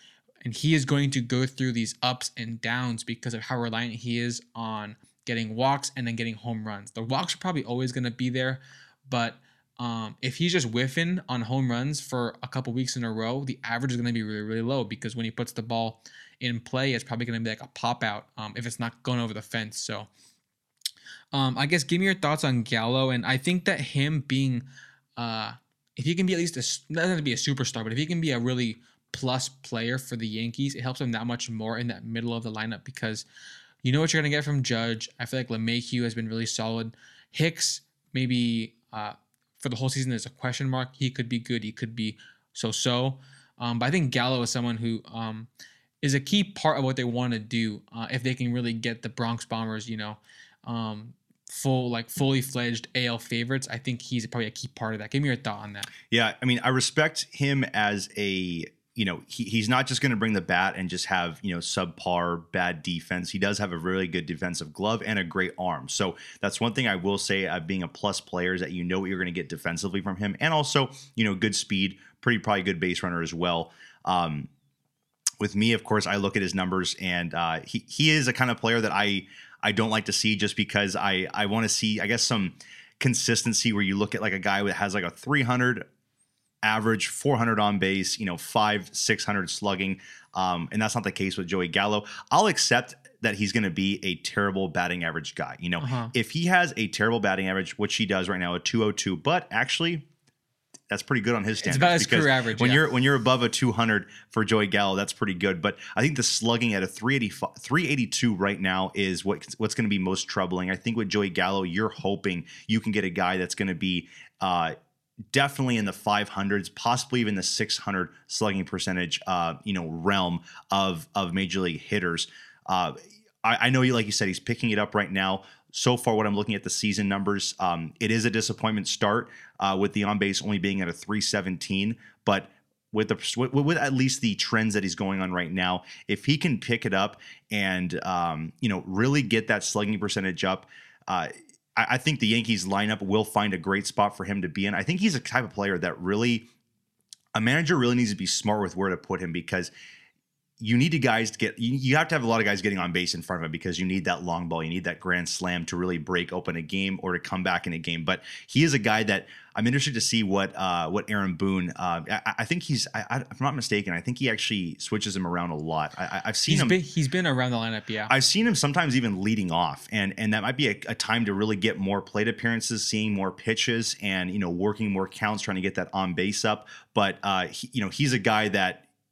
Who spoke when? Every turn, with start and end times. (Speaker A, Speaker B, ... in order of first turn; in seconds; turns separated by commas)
Speaker A: 0.4-20.1, Speaker A: 21.3-24.6, Speaker A: 25.2-33.3, Speaker A: 33.8-45.5, Speaker A: 46.0-55.9, Speaker B: 56.1-74.5, Speaker B: 75.4-85.8, Speaker B: 86.6-100.1, Speaker A: 95.8-96.1, Speaker B: 100.9-114.7, Speaker A: 101.6-102.8, Speaker B: 115.3-146.5, Speaker B: 147.3-149.7, Speaker B: 150.6-166.8, Speaker A: 166.5-168.1, Speaker B: 168.1-178.8